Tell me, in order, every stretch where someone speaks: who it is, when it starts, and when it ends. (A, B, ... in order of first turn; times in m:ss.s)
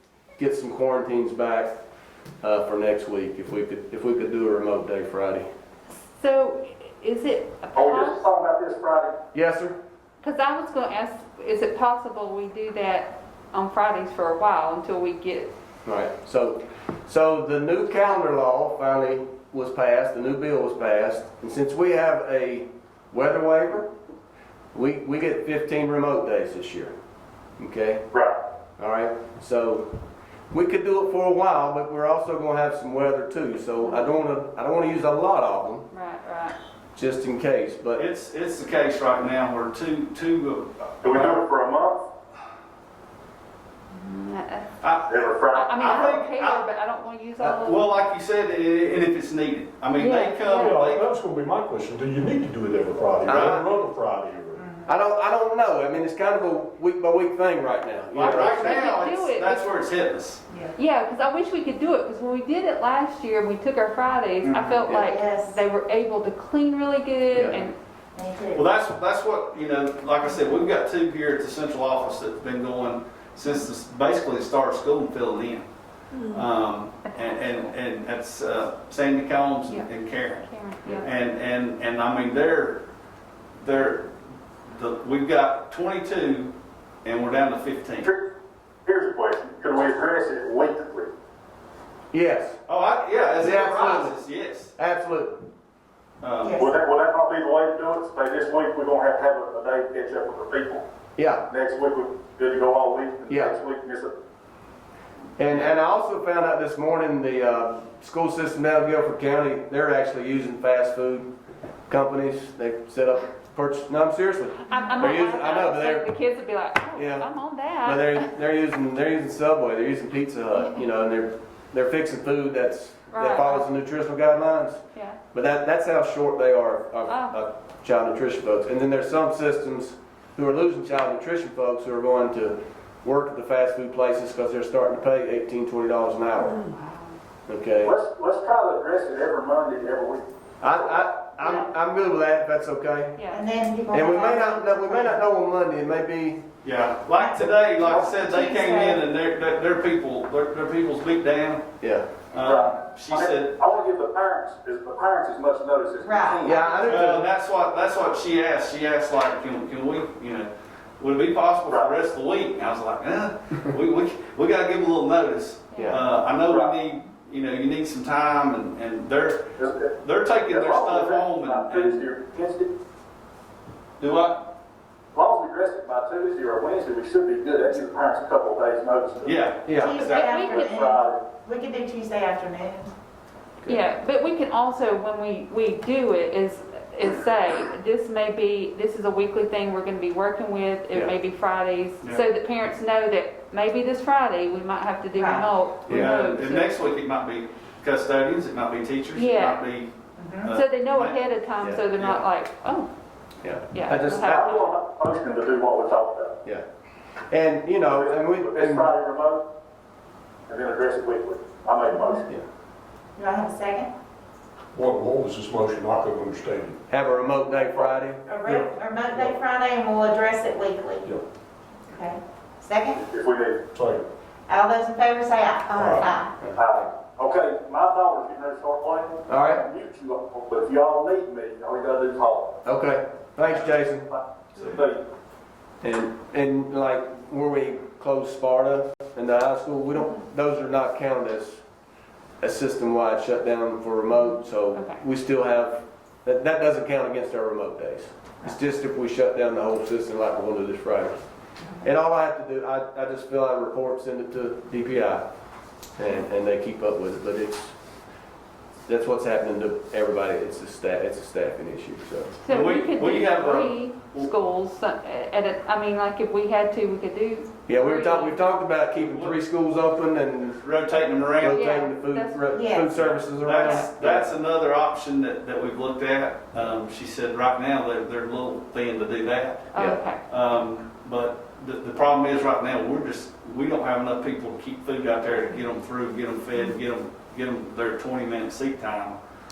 0:00.4-0:01.8 A
0:02.4-0:05.4 A
0:05.9-0:08.2 B
0:07.7-0:09.1 C
0:09.3-0:09.8 A
0:10.2-0:15.5 B
0:15.8-0:23.9 A
0:24.7-0:26.9 A
0:27.6-0:28.0 A
0:28.8-0:29.9 A
0:30.5-0:35.9 A
0:35.9-0:36.6 B
0:36.9-0:38.0 A
0:38.0-0:41.4 D
0:41.0-0:42.0 C
0:43.9-0:44.7 B
0:44.8-0:46.7 D
0:45.0-0:46.2 C
0:45.5-0:47.9 B
0:47.6-0:51.1 D
0:50.0-0:50.8 B
0:50.5-0:54.6 E
0:53.2-0:53.6 A
0:53.3-0:53.6 D
0:54.6-0:54.9 F
0:54.8-0:58.8 A
0:58.1-1:00.4 D
0:58.5-0:59.7 B
1:00.8-1:07.8 B
1:05.0-1:05.6 F
1:07.3-1:07.6 A
1:08.2-1:08.6 F
1:08.6-1:15.7 D
1:16.3-1:22.8 D
1:17.1-1:17.6 B
1:19.7-1:21.1 B
1:23.6-1:24.1 D
1:24.7-1:26.5 D
1:27.0-1:28.1 D
1:28.8-1:31.1 C
1:32.1-1:32.6 A
1:32.7-1:34.7 D
1:33.4-1:34.2 A
1:34.8-1:35.4 A
1:36.2-1:36.6 D
1:36.4-1:36.7 F
1:36.6-1:40.8 C
1:41.2-1:41.4 A
1:41.5-1:44.1 C
1:43.3-1:43.5 A
1:45.4-1:51.3 A
1:51.9-1:56.0 A
1:54.6-1:58.3 B
1:57.0-1:57.3 A
1:57.8-2:04.8 A
2:03.1-2:03.6 B
2:04.9-2:05.2 B
2:05.3-2:16.6 A
2:07.1-2:07.4 B
2:16.6-2:17.2 B
2:17.5-2:17.9 A
2:17.8-2:21.0 C
2:20.6-2:23.2 A
2:23.2-2:23.4 B
2:23.3-2:25.2 F
2:23.9-2:26.4 A
2:26.6-2:31.7 D
2:27.1-2:29.0 F
2:31.8-2:32.1 A
2:32.3-2:33.5 D
2:32.4-2:36.6 C
2:36.0-2:36.9 F
2:36.4-2:37.3 A
2:36.8-2:40.5 D
2:41.0-2:52.0 D
2:41.7-2:42.0 C
2:45.7-2:46.0 B
2:46.5-2:46.7 C
2:49.6-2:52.7 C
2:54.0-2:54.4 D
2:55.1-2:59.4 C
2:59.2-3:00.4 D
2:59.6-2:59.9 A
2:59.8-3:02.9 F
3:00.1-3:00.8 B
3:00.4-3:01.2 C
3:03.6-3:16.8 B
3:15.1-3:15.5 F
3:15.8-3:19.9 D
3:19.1-3:19.6 B
3:20.2-3:20.5 F
3:20.4-3:22.2 D
3:20.5-3:22.9 B
3:23.4-3:24.4 A
3:23.7-3:24.7 B
3:24.2-3:26.3 C
3:27.3-3:28.9 A
3:27.8-3:29.4 C
3:30.5-3:32.2 C
3:31.9-3:32.2 F
3:33.2-3:33.9 F
3:34.7-3:36.8 E
3:36.9-3:38.7 A
3:37.6-3:37.9 C
3:38.2-3:41.1 F
3:41.9-3:43.0 F
3:43.0-3:43.6 C
3:43.7-3:44.1 E
3:44.5-3:46.3 F
3:45.7-3:46.1 E
3:46.4-3:46.9 A
3:46.5-3:52.6 C
3:49.3-3:49.6 A
3:52.6-3:54.1 A
3:53.5-3:55.0 C
3:55.8-4:01.6 A
4:02.4-4:11.2 A
4:04.7-4:05.0 B
4:11.8-4:15.2 A
4:16.0-4:17.7 A
4:18.9-4:22.4 A
4:22.4-4:28.5 B
4:22.5-4:24.3 D
4:27.7-4:30.6 A
4:28.9-4:29.4 D
4:30.6-4:31.6 D
4:31.4-4:34.3 A
4:31.5-4:32.6 B
4:32.5-4:32.9 F
4:32.9-4:39.7 D
4:33.6-4:33.9 B
4:39.7-4:40.2 B
4:40.3-4:49.2 D